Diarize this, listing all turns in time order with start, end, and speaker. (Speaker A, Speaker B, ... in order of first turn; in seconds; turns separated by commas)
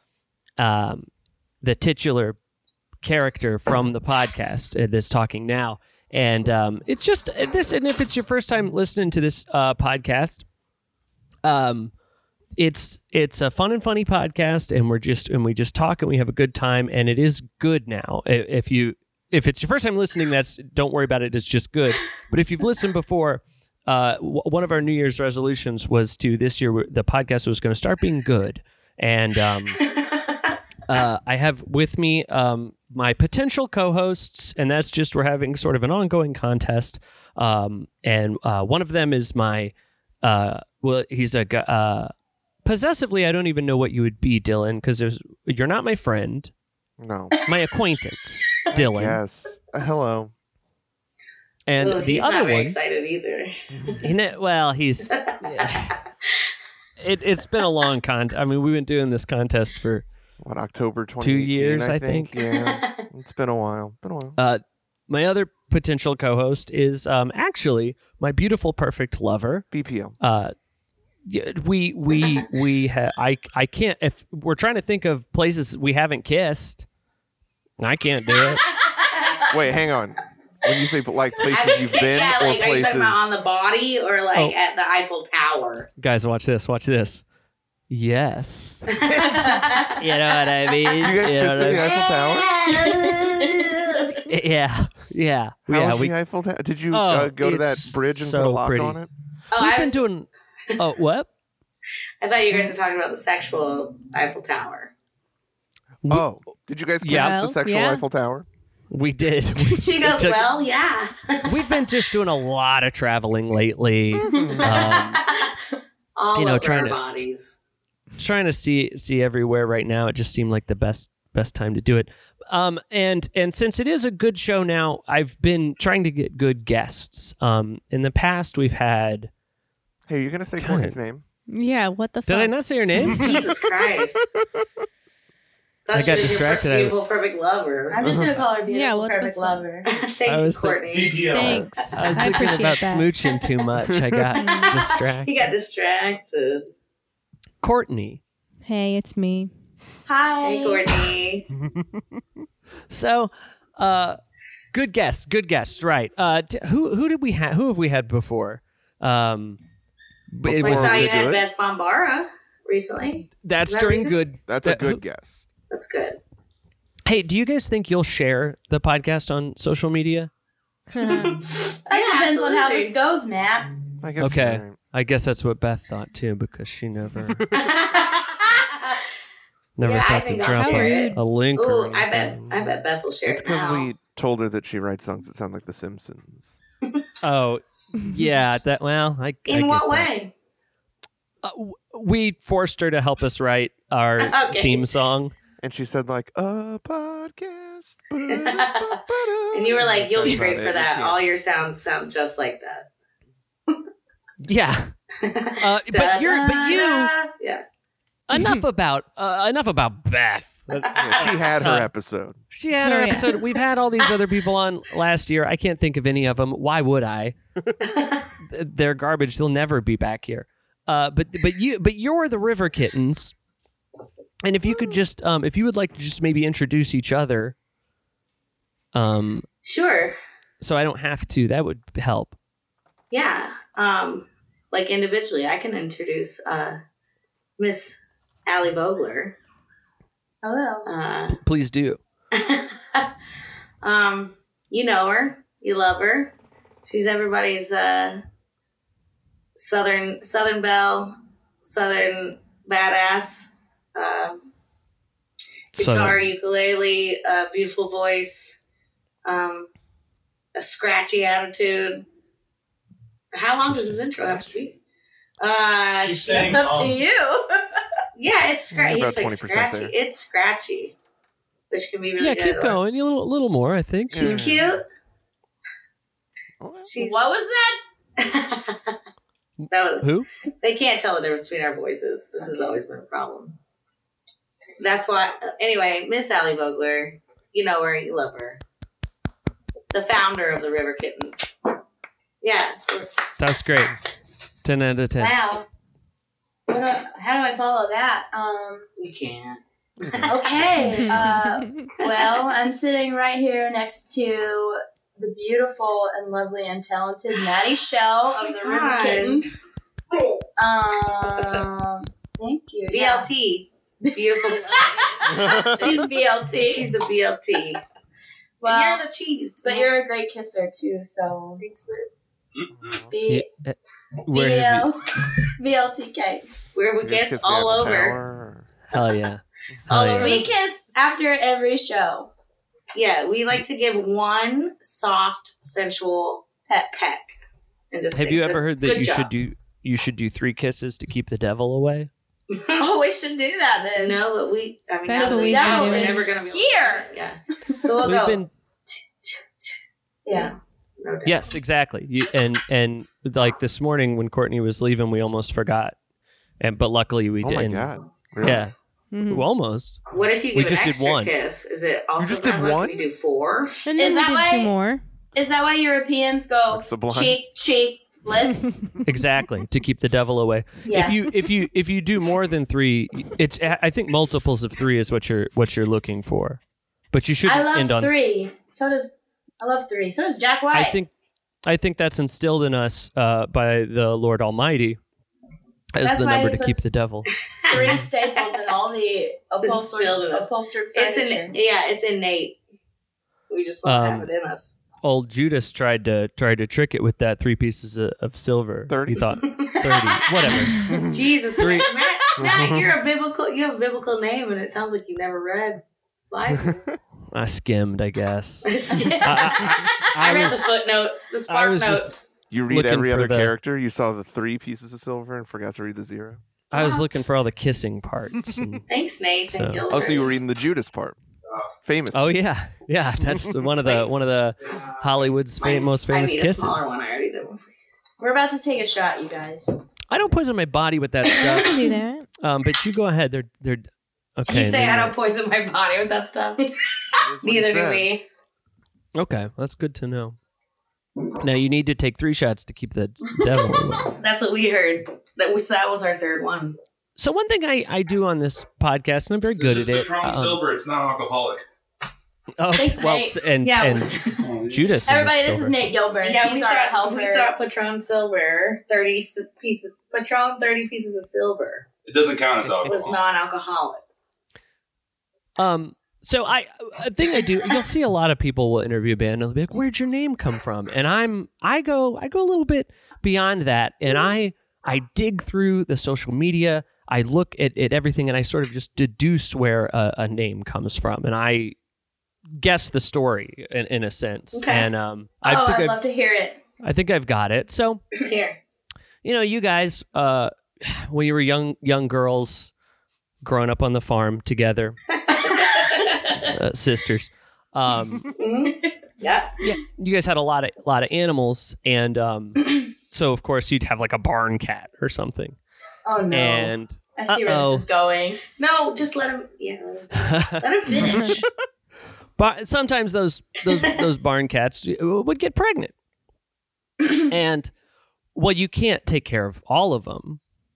Speaker A: 0.6-1.1, Speaker A: 1.6-2.4, Speaker A: 3.0-10.4, Speaker A: 11.4-11.9, Speaker A: 12.6-29.8, Speaker B: 29.9-30.4, Speaker A: 30.9-42.1, Speaker A: 42.6-46.5, Speaker C: 47.0-47.4, Speaker A: 47.5-49.2, Speaker C: 48.7-50.3, Speaker A: 51.7-52.8, Speaker B: 51.8-53.9, Speaker C: 53.7-54.0, Speaker A: 54.0-56.0, Speaker B: 55.1-55.7, Speaker A: 57.0-60.0, Speaker C: 60.4-64.4, Speaker A: 61.2-62.3, Speaker B: 62.5-63.0, Speaker A: 64.4-69.7, Speaker C: 69.7-70.2, Speaker A: 70.2-70.5, Speaker A: 71.2-76.8, Speaker A: 77.8-78.7, Speaker C: 79.5-83.4, Speaker B: 81.5-85.9, Speaker A: 86.0-87.2, Speaker A: 87.9-88.9, Speaker B: 89.0-90.0, Speaker C: 89.1-89.4, Speaker D: 89.5-89.9, Speaker A: 90.0-92.0, Speaker C: 91.0-92.5, Speaker B: 91.6-92.9, Speaker D: 92.2-93.5, Speaker A: 92.7-93.5, Speaker A: 94.1-96.2, Speaker C: 95.7-99.1, Speaker A: 96.9-99.0, Speaker B: 99.5-100.0, Speaker A: 99.5-101.3, Speaker B: 102.2-104.9, Speaker C: 106.1-108.5, Speaker A: 107.0-107.4, Speaker E: 107.1-108.0, Speaker A: 108.9-110.4, Speaker B: 109.6-111.8, Speaker A: 111.4-115.2, Speaker C: 114.2-114.9, Speaker D: 114.2-114.6, Speaker B: 114.6-115.5, Speaker B: 116.2-117.6, Speaker A: 116.3-117.0, Speaker A: 118.2-129.3, Speaker C: 130.1-131.2, Speaker A: 130.6-131.0, Speaker E: 131.5-132.5, Speaker A: 132.3-133.3, Speaker C: 133.1-133.5, Speaker B: 133.2-134.2, Speaker B: 135.9-138.1, Speaker A: 135.9-136.9, Speaker D: 137.9-139.9, Speaker C: 138.0-138.4, Speaker E: 138.7-139.7, Speaker B: 139.8-141.9, Speaker A: 140.2-140.8, Speaker F: 140.9-141.8, Speaker E: 141.3-143.1, Speaker A: 141.8-145.3, Speaker E: 144.4-144.7, Speaker B: 144.4-146.7, Speaker A: 147.6-148.2, Speaker E: 148.6-149.5, Speaker D: 150.1-151.1, Speaker B: 150.4-151.4, Speaker C: 151.7-152.0, Speaker A: 152.9-154.2, Speaker A: 154.7-159.6, Speaker A: 160.3-161.2, Speaker C: 160.4-161.4, Speaker B: 160.6-164.2, Speaker A: 163.4-165.0, Speaker C: 164.5-165.4, Speaker B: 165.7-166.2, Speaker A: 167.1-170.3, Speaker E: 170.9-171.5, Speaker B: 171.0-172.9, Speaker D: 171.9-173.7, Speaker C: 174.0-174.8, Speaker A: 174.2-177.4, Speaker C: 177.3-177.7, Speaker B: 177.5-179.1, Speaker A: 179.8-182.4, Speaker B: 179.8-183.9, Speaker E: 180.5-181.2, Speaker C: 183.2-186.6, Speaker A: 187.2-190.1, Speaker B: 189.5-190.3, Speaker A: 191.4-195.3, Speaker B: 194.2-194.8, Speaker C: 195.6-201.2, Speaker B: 198.3-199.0, Speaker B: 199.5-202.9, Speaker A: 204.4-204.9, Speaker B: 205.2-207.6, Speaker A: 205.6-207.1, Speaker A: 208.3-211.9, Speaker B: 210.9-211.5, Speaker C: 210.9-212.4, Speaker A: 212.5-217.4, Speaker E: 212.8-213.3, Speaker B: 217.8-218.3, Speaker A: 218.4-223.3, Speaker A: 224.4-227.6, Speaker A: 228.9-229.5, Speaker B: 229.6-230.2, Speaker A: 230.6-232.3, Speaker B: 233.1-236.8, Speaker B: 237.6-239.3, Speaker D: 240.4-240.9, Speaker B: 240.8-241.4, Speaker A: 241.3-242.0, Speaker B: 242.3-243.1, Speaker B: 243.8-246.3, Speaker B: 246.8-248.2, Speaker B: 249.5-254.5, Speaker A: 255.7-256.2, Speaker B: 255.8-258.6, Speaker B: 259.2-259.7, Speaker B: 260.6-262.0, Speaker B: 263.3-264.8, Speaker A: 263.7-264.1, Speaker B: 265.4-267.0, Speaker F: 266.0-267.0, Speaker D: 266.3-267.5, Speaker B: 268.1-270.9, Speaker C: 268.7-269.9, Speaker B: 271.7-272.8, Speaker A: 272.2-274.5, Speaker C: 274.1-274.8, Speaker B: 274.1-274.8, Speaker C: 276.6-276.9, Speaker B: 276.9-277.3, Speaker D: 277.0-277.8, Speaker B: 278.2-279.0, Speaker A: 279.6-280.3, Speaker B: 279.7-280.1, Speaker B: 280.6-283.6, Speaker B: 284.8-288.6, Speaker B: 289.9-291.5, Speaker B: 292.4-293.1, Speaker A: 293.4-293.9, Speaker A: 294.6-295.3, Speaker D: 295.2-295.6, Speaker B: 296.7-297.0, Speaker D: 296.9-298.9, Speaker B: 299.0-301.0, Speaker C: 300.0-300.6, Speaker D: 300.2-309.6, Speaker E: 300.8-301.9, Speaker B: 302.0-302.4, Speaker B: 308.4-309.6, Speaker D: 310.6-313.3, Speaker B: 311.3-311.7, Speaker B: 312.9-316.0, Speaker D: 314.0-316.9, Speaker C: 315.2-316.0, Speaker B: 316.6-317.8, Speaker D: 318.6-319.0, Speaker B: 318.6-319.9, Speaker D: 319.6-321.6, Speaker B: 321.6-322.1, Speaker F: 322.6-323.0, Speaker C: 322.7-323.1, Speaker D: 323.1-323.4, Speaker A: 323.3-324.9, Speaker D: 324.3-326.4, Speaker B: 326.7-328.2, Speaker C: 327.0-328.7, Speaker A: 328.9-330.4, Speaker B: 329.9-330.6, Speaker D: 329.9-332.3, Speaker B: 332.9-337.4, Speaker B: 337.9-339.3, Speaker A: 338.1-342.1, Speaker B: 342.5-342.8, Speaker D: 342.8-344.2, Speaker B: 343.9-351.6, Speaker E: 345.1-346.2, Speaker D: 345.1-347.1, Speaker A: 348.0-348.5, Speaker D: 350.3-350.5, Speaker A: 351.2-355.9, Speaker A: 356.6-358.7, Speaker C: 357.4-358.6, Speaker E: 359.1-359.4, Speaker A: 359.3-360.0, Speaker B: 360.1-363.8, Speaker A: 360.5-361.3, Speaker C: 362.2-363.0, Speaker E: 363.8-365.0, Speaker D: 363.9-364.7, Speaker D: 365.3-368.9, Speaker C: 366.7-367.4, Speaker A: 369.0-376.6, Speaker D: 370.9-371.2, Speaker A: 377.1-378.2, Speaker D: 377.4-381.0, Speaker A: 380.7-381.1, Speaker A: 381.6-385.0, Speaker A: 385.9-387.3, Speaker D: 386.0-386.9, Speaker B: 387.7-388.6, Speaker D: 387.7-391.6, Speaker B: 389.6-392.6, Speaker B: 393.5-394.8, Speaker A: 393.8-394.3, Speaker A: 395.0-400.8, Speaker C: 398.9-399.4, Speaker B: 399.4-406.8, Speaker D: 399.9-400.2, Speaker C: 400.8-401.3, Speaker A: 401.6-401.9, Speaker D: 401.9-402.5, Speaker C: 402.4-402.9, Speaker C: 406.5-406.9, Speaker A: 407.3-410.7, Speaker B: 408.6-412.3, Speaker A: 411.5-412.1, Speaker C: 412.5-416.4, Speaker A: 412.7-413.5, Speaker A: 416.7-418.8, Speaker C: 418.4-418.8, Speaker B: 418.9-420.4, Speaker A: 419.5-419.8, Speaker C: 419.9-421.2, Speaker C: 421.8-422.5, Speaker A: 422.1-426.9, Speaker C: 423.2-423.5, Speaker B: 425.6-427.7, Speaker D: 428.2-429.8, Speaker A: 430.1-431.8, Speaker B: 431.5-431.8, Speaker E: 431.5-432.3, Speaker A: 432.4-435.1, Speaker B: 434.4-436.7, Speaker C: 437.1-438.1, Speaker B: 437.4-438.2, Speaker A: 439.1-440.4, Speaker A: 441.4-444.1, Speaker B: 444.1-446.8, Speaker A: 447.2-450.6, Speaker F: 449.6-451.6, Speaker A: 452.6-455.8, Speaker D: 452.7-453.4, Speaker B: 453.6-454.4, Speaker F: 454.4-454.8, Speaker D: 455.1-457.5, Speaker B: 456.2-461.9, Speaker F: 462.1-463.2, Speaker C: 462.6-463.1, Speaker B: 462.8-464.0, Speaker A: 465.6-481.8, Speaker A: 482.6-486.0, Speaker B: 484.5-484.9, Speaker D: 485.4-486.6, Speaker A: 486.8-488.0, Speaker B: 488.1-488.6, Speaker A: 489.2-492.7, Speaker A: 493.4-495.0, Speaker B: 495.1-496.5, Speaker A: 496.3-498.3, Speaker B: 498.4-499.5, Speaker A: 499.6-505.6, Speaker D: 506.0-508.4, Speaker A: 506.3-507.8, Speaker B: 508.6-511.4, Speaker A: 510.1-511.1, Speaker E: 511.0-511.3, Speaker A: 512.4-515.9, Speaker A: 517.3-517.7, Speaker A: 518.3-520.4